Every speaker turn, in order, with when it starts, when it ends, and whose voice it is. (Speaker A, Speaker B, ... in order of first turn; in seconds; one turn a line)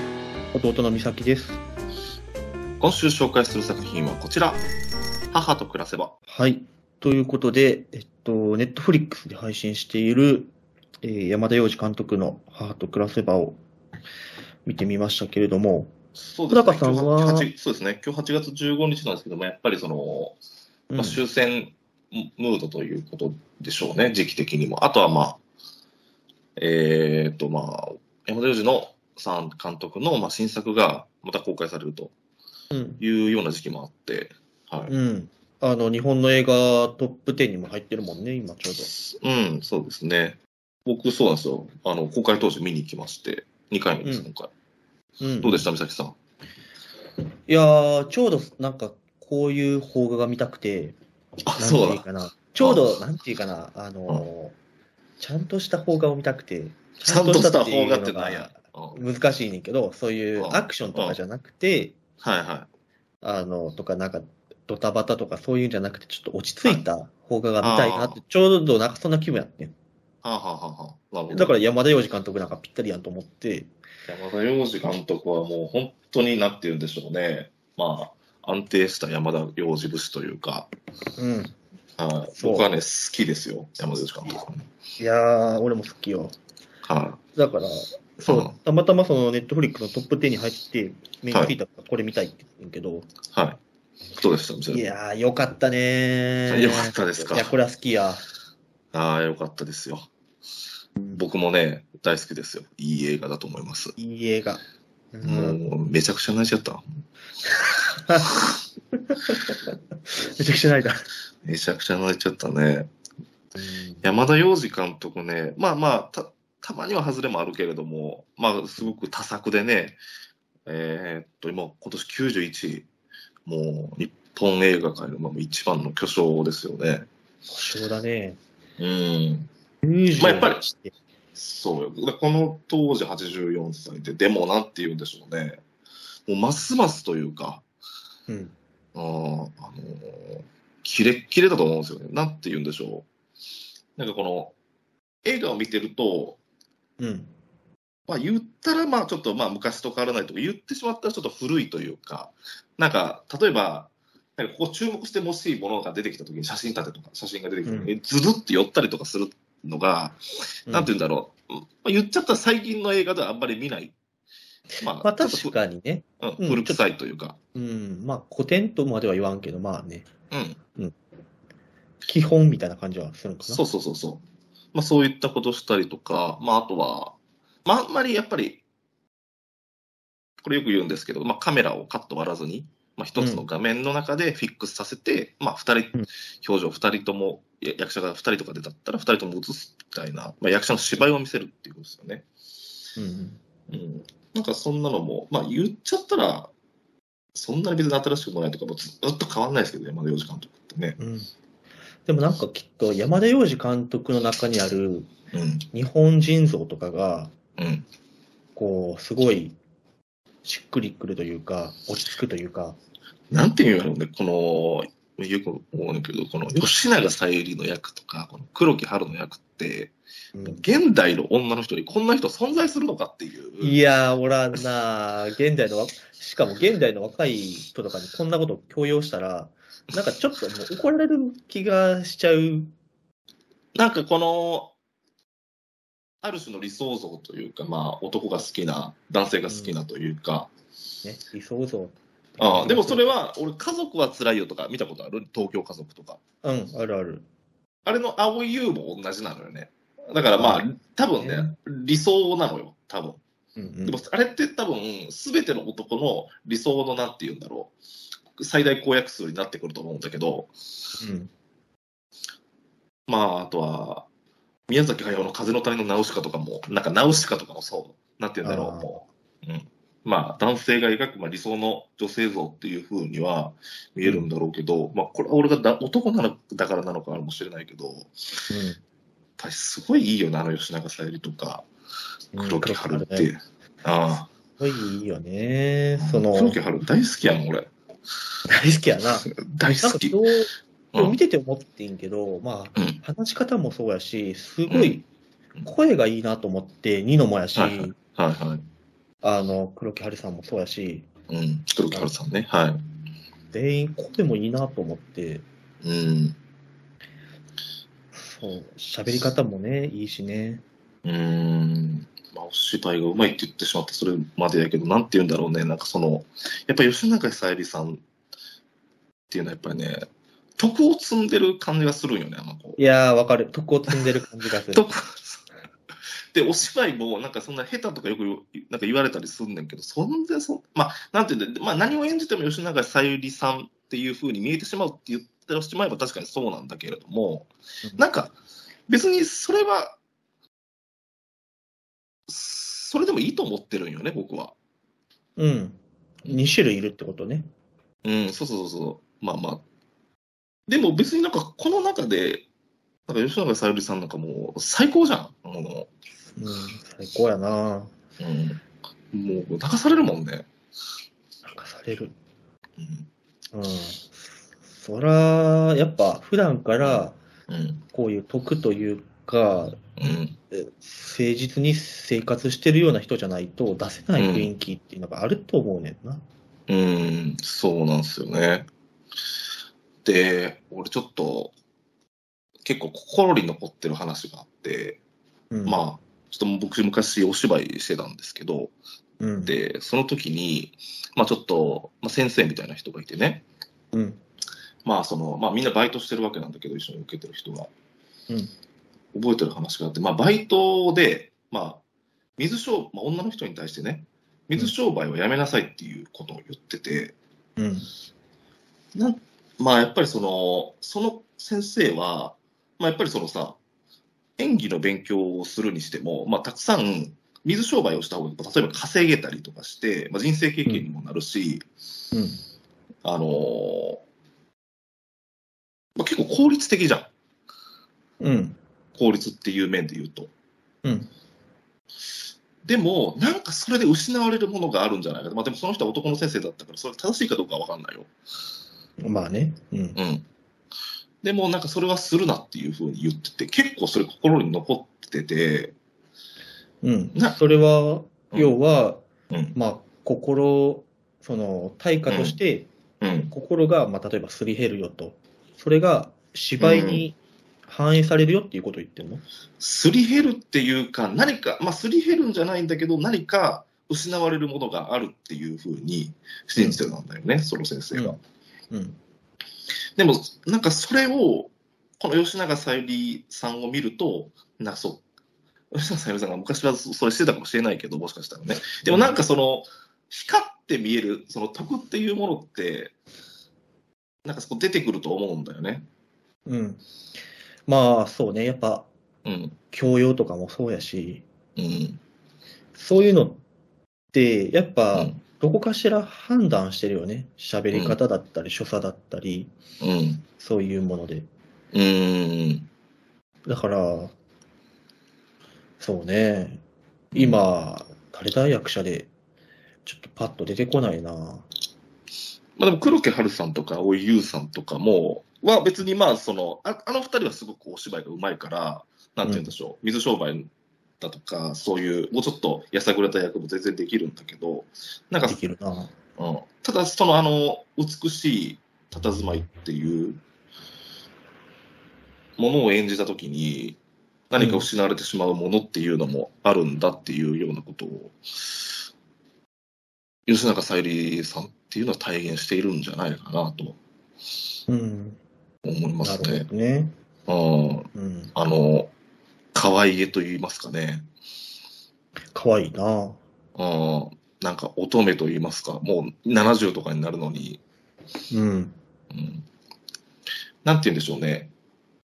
Speaker A: 0.5-1.6
Speaker B: 2.8-4.6
Speaker B: 5.3-6.2
Speaker A: 6.3-13.6
Speaker A: 14.7-15.9
Speaker B: 16.2-20.4
Speaker A: 16.5-17.5
Speaker A: 20.9-21.2
Speaker B: 21.0-25.4
Speaker B: 26.6-32.1
Speaker A: 32.7-33.0
Speaker B: 33.0-34.9
Speaker A: 34.9-38.9
Speaker B: 38.8-44.5
Speaker A: 44.0-44.3
Speaker A: 45.2-45.7
Speaker B: 45.4-46.2
Speaker A: 47.5-51.0
Speaker B: 51.5-52.9
Speaker A: 51.6-54.6
Speaker A: 55.2-62.0
Speaker B: 57.0-59.1
Speaker B: 60.4-61.2
Speaker B: 62.2-62.7
Speaker A: 63.2-69.8
Speaker B: 67.6-68.2
Speaker B: 70.2-71.6
Speaker A: 71.3-73.7
Speaker B: 74.1-80.7
Speaker A: 81.2-81.6
Speaker B: 82.0-84.7
Speaker A: 82.3-82.7
Speaker A: 85.0-86.4
Speaker B: 86.8-87.2
Speaker A: 87.3-93.1
Speaker B: 88.3-88.6
Speaker B: 91.3-91.6
Speaker B: 93.3-93.6
Speaker B: 94.2-94.9
Speaker A: 94.7-98.2
Speaker B: 96.5-97.6
Speaker B: 98.9-100.1
Speaker B: 101.1-104.0
Speaker A: 104.0-104.6
Speaker A: 105.1-105.6
Speaker B: 105.2-106.9
Speaker A: 107.9-108.4
Speaker A: 109.0-111.0
Speaker B: 111.4-112.9
Speaker A: 113.6-114.0
Speaker B: 114.0-120.0
Speaker B: 120.7-122.9
Speaker B: 123.5-127.1
Speaker A: 127.5-128.4
Speaker B: 128.8-129.5
Speaker A: 129.8-130.9
Speaker B: 130.2-130.6
Speaker B: 131.3-135.6
Speaker B: 136.3-137.7
Speaker A: 138.3-138.6
Speaker B: 138.9-143.1
Speaker B: 144.0-144.6
Speaker B: 145.2-146.4
Speaker A: 147.0-147.3
Speaker B: 148.1-163.9
Speaker A: 157.7-157.9
Speaker A: 160.7-160.9
Speaker A: 164.8-166.8
Speaker B: 164.8-165.6
Speaker B: 166.2-167.4
Speaker A: 167.5-170.1
Speaker B: 170.3-170.6
Speaker A: 172.1-173.6
Speaker B: 173.5-178.6
Speaker B: 180.4-192.3
Speaker A: 183.2-183.4
Speaker A: 193.0-193.4
Speaker B: 193.7-196.5
Speaker B: 197.3-201.0
Speaker A: 201.0-201.3
Speaker A: 202.1-205.1
Speaker B: 205.3-205.7
Speaker A: 205.7-207.3
Speaker B: 207.6-207.9
Speaker A: 208.6-209.6
Speaker A: 210.4-212.8
Speaker B: 213.3-223.8
Speaker A: 220.3-220.6
Speaker A: 223.6-232.7
Speaker B: 233.8-234.7
Speaker B: 236.2-240.5
Speaker A: 239.5-239.8
Speaker A: 241.0-243.1
Speaker B: 242.4-246.2
Speaker A: 246.4-247.3
Speaker B: 247.8-253.2
Speaker A: 250.4-251.5
Speaker A: 253.6-254.0
Speaker B: 253.8-257.7
Speaker B: 258.4-260.5
Speaker A: 261.0-261.3
Speaker B: 263.1-264.1
Speaker B: 264.7-278.4
Speaker A: 268.4-268.9
Speaker A: 274.0-274.3
Speaker A: 278.5-278.8
Speaker B: 279.4-281.7
Speaker A: 282.3-283.3
Speaker B: 282.4-284.3
Speaker A: 284.6-286.6
Speaker B: 286.0-287.7
Speaker A: 288.5-289.3
Speaker B: 289.1-290.2
Speaker A: 289.8-295.1
Speaker B: 290.9-291.2
Speaker B: 292.8-293.0
Speaker B: 294.7-295.0
Speaker A: 295.6-298.0
Speaker B: 297.6-298.7
Speaker A: 299.2-301.1
Speaker B: 301.3-302.8
Speaker A: 303.5-305.5
Speaker B: 305.8-306.4
Speaker A: 308.1-310.6
Speaker B: 311.1-318.0
Speaker B: 319.3-320.1
Speaker B: 320.6-322.8
Speaker A: 322.8-324.9
Speaker B: 324.7-325.4
Speaker B: 326.3-338.3
Speaker B: 338.9-340.0
Speaker B: 342.3-344.6
Speaker A: 345.4-347.5
Speaker B: 348.0-349.6
Speaker B: 350.7-352.5
Speaker B: 353.1-355.9
Speaker A: 356.4-357.9
Speaker B: 358.2-358.6
Speaker B: 359.1-360.5
Speaker A: 361.4-362.2
Speaker B: 362.8-363.1
Speaker A: 363.5-367.2
Speaker B: 366.8-367.8
Speaker A: 367.9-369.8
Speaker B: 370.0-370.4
Speaker A: 370.5-376.3
Speaker B: 374.2-374.5
Speaker B: 376.7-378.7
Speaker B: 380.0-381.5
Speaker B: 382.6-385.0
Speaker A: 385.5-385.8
Speaker B: 385.6-388.8
Speaker A: 389.2-389.6
Speaker B: 389.4-393.4
Speaker A: 393.9-394.2
Speaker B: 394.9-397.7
Speaker B: 399.1-401.8
Speaker B: 402.4-407.2
Speaker A: 407.6-407.9
Speaker B: 409.0-413.6
Speaker B: 414.4-421.6
Speaker A: 422.1-422.4
Speaker B: 423.0-424.0
Speaker B: 426.0-427.1
Speaker A: 428.2-428.6
Speaker B: 428.9-430.3
Speaker A: 430.8-431.1
Speaker B: 432.6-438.1
Speaker A: 439.0-440.0
Speaker B: 440.0-440.3
Speaker B: 441.2-445.8
Speaker A: 446.8-452.7
Speaker B: 448.3-448.6
Speaker B: 449.3-449.6
Speaker B: 452.1-452.4
Speaker B: 453.0-453.3
Speaker A: 453.3-459.2
Speaker B: 456.6-457.1
Speaker B: 459.6-468.2
Speaker A: 466.6-466.8
Speaker A: 468.7-469.0
Speaker B: 470.0-475.0
Speaker B: 475.7-482.9
Speaker A: 478.9-479.2
Speaker B: 484.2-485.9
Speaker A: 486.5-486.8
Speaker A: 487.7-488.9
Speaker B: 489.2-489.6
Speaker A: 489.7-491.3
Speaker B: 491.6-492.0
Speaker A: 492.8-493.4
Speaker A: 494.1-499.5
Speaker B: 494.9-495.2
Speaker B: 497.7-498.0
Speaker B: 499.8-500.2
Speaker A: 500.4-501.3
Speaker B: 501.7-502.7
Speaker A: 503.4-504.1
Speaker A: 505.8-509.1
Speaker B: 507.1-507.5
Speaker A: 509.9-511.5
Speaker B: 512.6-520.5
Speaker B: 521.0-525.4
Speaker A: 525.2-525.9
Speaker B: 526.2-530.2
Speaker B: 532.4-533.8
Speaker B: 534.3-538.6
Speaker A: 534.4-534.7
Speaker B: 540.3-543.8
Speaker A: 544.7-545.2
Speaker B: 545.6-546.5
Speaker A: 546.0-547.0
Speaker B: 547.3-548.9
Speaker A: 547.9-548.3
Speaker B: 549.5-551.1
Speaker A: 552.3-553.2
Speaker B: 553.6-557.6
Speaker A: 558.3-558.8
Speaker B: 559.1-559.5
Speaker B: 560.6-561.5